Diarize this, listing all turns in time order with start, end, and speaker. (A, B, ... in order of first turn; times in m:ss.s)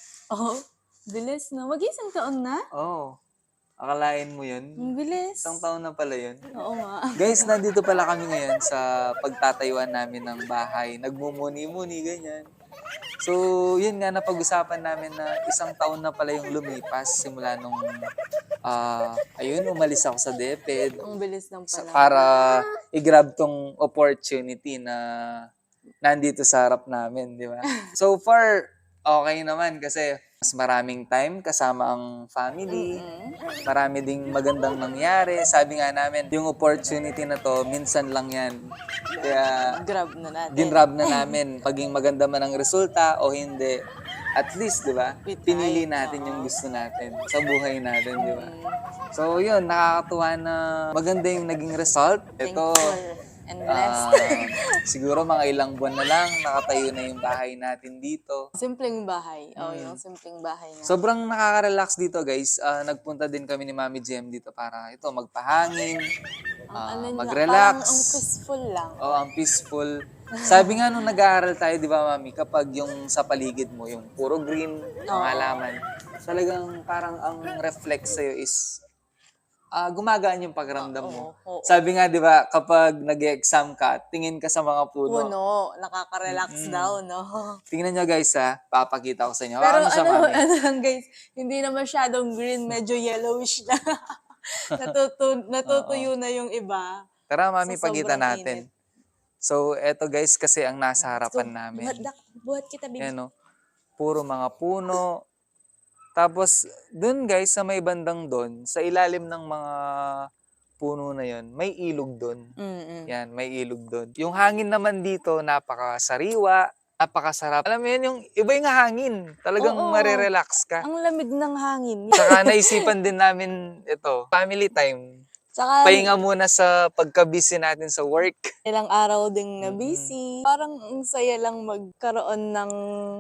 0:00.3-0:02.6 A
0:02.7-0:03.1 B
0:03.8-0:04.9 B
0:04.8-0:05.6 A
0:05.4-0:06.4 B
0:06.5-0:07.5 A
0:07.2-0:12.5 B
0:13.2-0:17.8 B
0:18.7-0:21.0 B
0:21.0-0:22.5 A
0:21.7-0:25.0 B
0:26.0-0:28.5 B
0:29.1-0:32.9 B
0:32.7-0:33.4 A
0:33.7-0:38.6 B
0:39.2-0:39.7 B
0:39.7-0:41.4 A
0:40.5-0:43.8 B
0:44.4-0:48.5 B
0:45.3-0:46.5 A
0:48.2-0:48.8 A
0:49.1-0:52.9 B
0:52.4-0:54.6 A
0:53.7-0:58.4 B
0:58.6-1:01.0 A
0:59.6-1:00.0 B
1:00.9-1:06.0 B
1:06.7-1:09.1 A
1:06.8-1:08.2 B
1:09.0-1:09.9 B
1:10.4-1:11.1 A
1:10.4-1:18.6 B
1:15.1-1:15.6 A
1:19.8-1:25.3 B
1:20.8-1:21.8 A
1:25.1-1:27.6 A
1:26.3-1:27.0 B
1:27.7-1:30.4 B
1:29.6-1:33.8 A
1:34.7-1:37.0 A
1:35.7-1:36.1 B
1:37.3-1:38.7 B
1:37.6-1:38.7 A
1:39.4-1:42.0 B
1:41.0-1:43.1 A
1:43.0-1:43.3 B
1:44.0-1:45.1 B
1:46.2-1:49.7 B
1:50.8-1:52.4 B
1:52.6-1:53.1 A
1:53.1-2:00.9 B
1:59.6-2:00.3 A
2:00.8-2:02.9 A
2:02.2-2:05.0 B
2:05.5-2:06.2 A
2:05.8-2:08.5 B
2:08.7-2:12.8 A
2:09.6-2:10.1 B